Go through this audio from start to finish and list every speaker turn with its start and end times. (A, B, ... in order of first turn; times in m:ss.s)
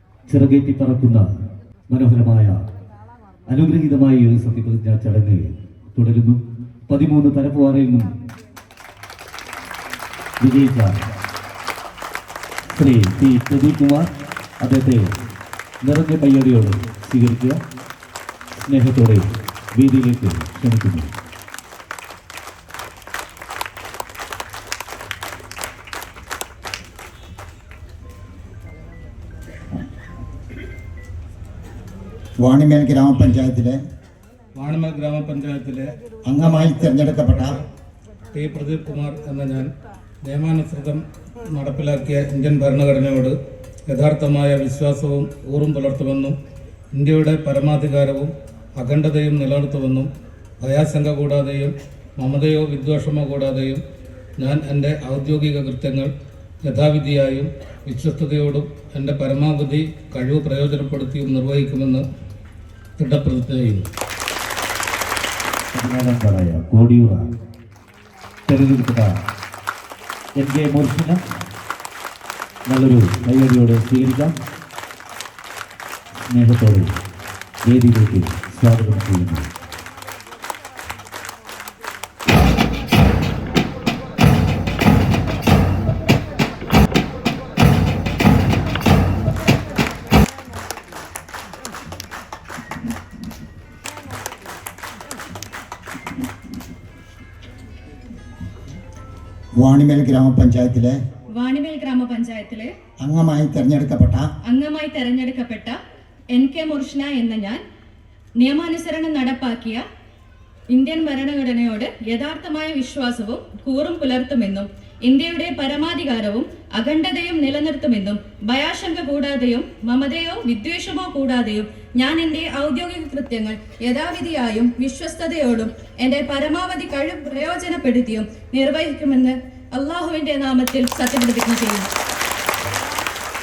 0:00.3-0:01.3 A
0:01.9-0:02.6 A
0:03.5-0:08.1 A
0:10.4-0:11.0 A
0:12.7-0:14.1 A
0:14.6-0:15.1 A
0:15.8-0:17.6 A
0:18.5-0:21.1 A
0:32.4-0:33.8 B
0:34.5-0:37.0 C
0:36.3-0:37.5 B
0:38.3-0:39.7 C
0:40.2-0:43.4 C
0:43.9-0:46.4 C
0:46.9-0:50.1 C
0:50.6-0:53.8 C
0:54.4-0:56.1 C
0:56.6-1:02.0 C
1:03.0-1:03.8 C
1:05.7-1:07.3 A
1:08.5-1:09.2 A
1:10.4-1:11.2 A
1:12.7-1:14.3 A
1:16.3-1:16.9 A
1:17.6-1:19.5 A
1:39.6-1:41.0 B
1:41.3-1:42.7 D
1:43.0-1:44.2 B
1:44.4-1:45.7 D
1:46.3-1:47.6 D
1:48.4-1:49.8 D
1:50.7-2:11.9 D